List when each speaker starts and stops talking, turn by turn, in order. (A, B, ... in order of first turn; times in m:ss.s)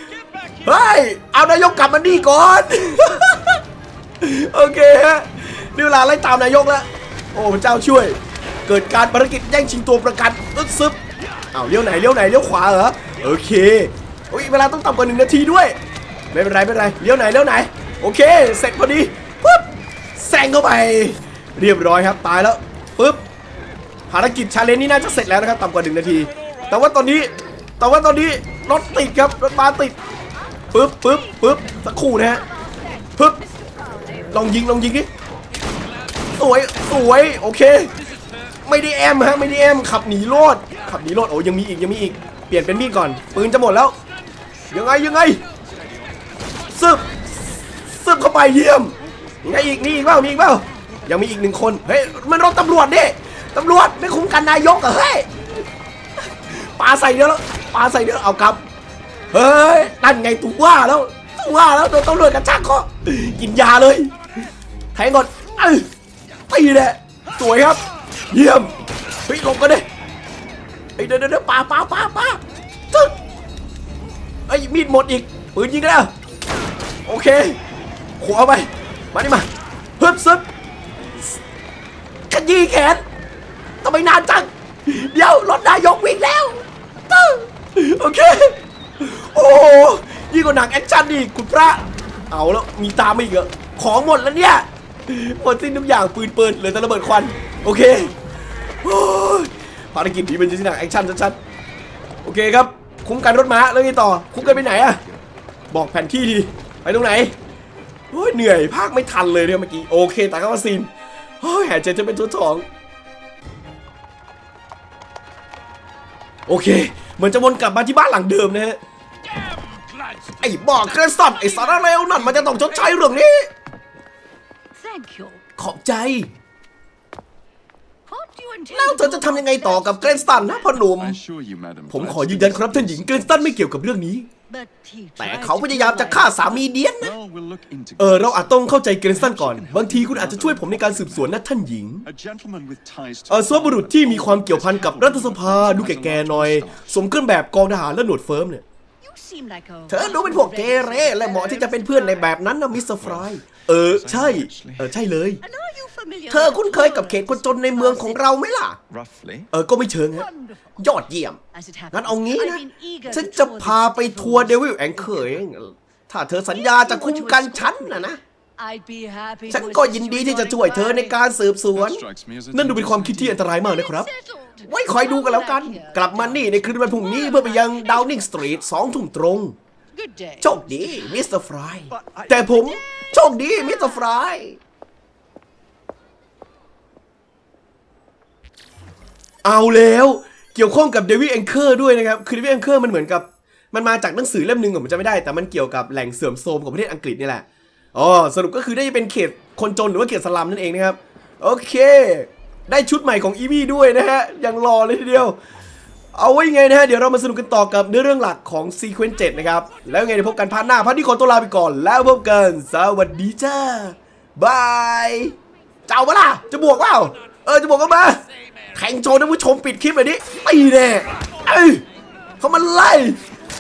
0:00.6-0:03.6 A
0:04.2-0:11.0 A
0:11.5-0:15.8 A
0:16.3-0:23.2 A
0:24.1-0:30.0 A
0:30.7-0:32.4 A
0:31.1-0:31.7 B
0:32.3-0:34.4 B
0:33.2-0:33.4 A
0:34.3-0:35.1 A
0:36.3-0:37.9 A
0:38.6-0:44.0 A
0:44.7-0:45.4 A
0:46.7-0:55.5 A
0:49.3-0:51.1 B
0:56.4-0:58.6 A
0:59.3-1:04.2 A
1:04.9-1:05.9 A
1:06.5-1:08.7 A
1:09.3-1:09.9 A
1:11.0-1:13.2 A
1:14.5-1:16.1 A
1:17.1-1:17.6 A
1:18.2-1:19.5 A
1:20.0-1:20.4 A
1:22.3-1:23.0 A
1:23.8-1:38.2 A
1:38.8-1:41.4 A
1:42.2-1:45.0 A
1:44.4-1:45.2 C
1:45.7-1:47.4 A
1:48.1-1:52.7 A
1:56.5-1:58.8 A
2:00.4-2:03.5 A
2:04.8-2:05.4 B
2:05.6-2:06.3 A
2:08.1-2:10.7 B
2:08.7-2:11.2 A
2:10.8-2:13.6 C
2:11.9-2:14.3 A
2:14.5-2:16.6 B
2:15.2-2:17.1 A
2:17.0-2:18.6 C
2:18.0-2:22.1 A
2:19.1-2:21.4 C
2:22.0-2:27.0 C
2:23.3-2:28.6 A
2:29.0-2:32.2 B
2:29.9-2:35.4 A
2:33.0-2:34.9 C
2:35.4-2:38.2 B
2:36.3-2:38.8 A
2:38.9-2:39.5 C
2:39.5-2:41.4 A
2:40.1-2:40.6 B
2:41.5-2:45.2 B
2:41.9-2:48.2 A
2:46.5-2:51.1 B
2:49.5-2:54.1 A
2:51.7-2:53.4 C
2:53.6-2:58.3 B
2:54.6-2:59.6 A
3:00.0-3:01.1 B
3:00.4-3:04.6 A
3:01.9-3:02.4 C
3:09.4-3:25.4 A
3:26.1-3:35.4 A
3:35.9-3:38.2 A
3:38.7-3:41.8 A
3:42.4-3:43.2 A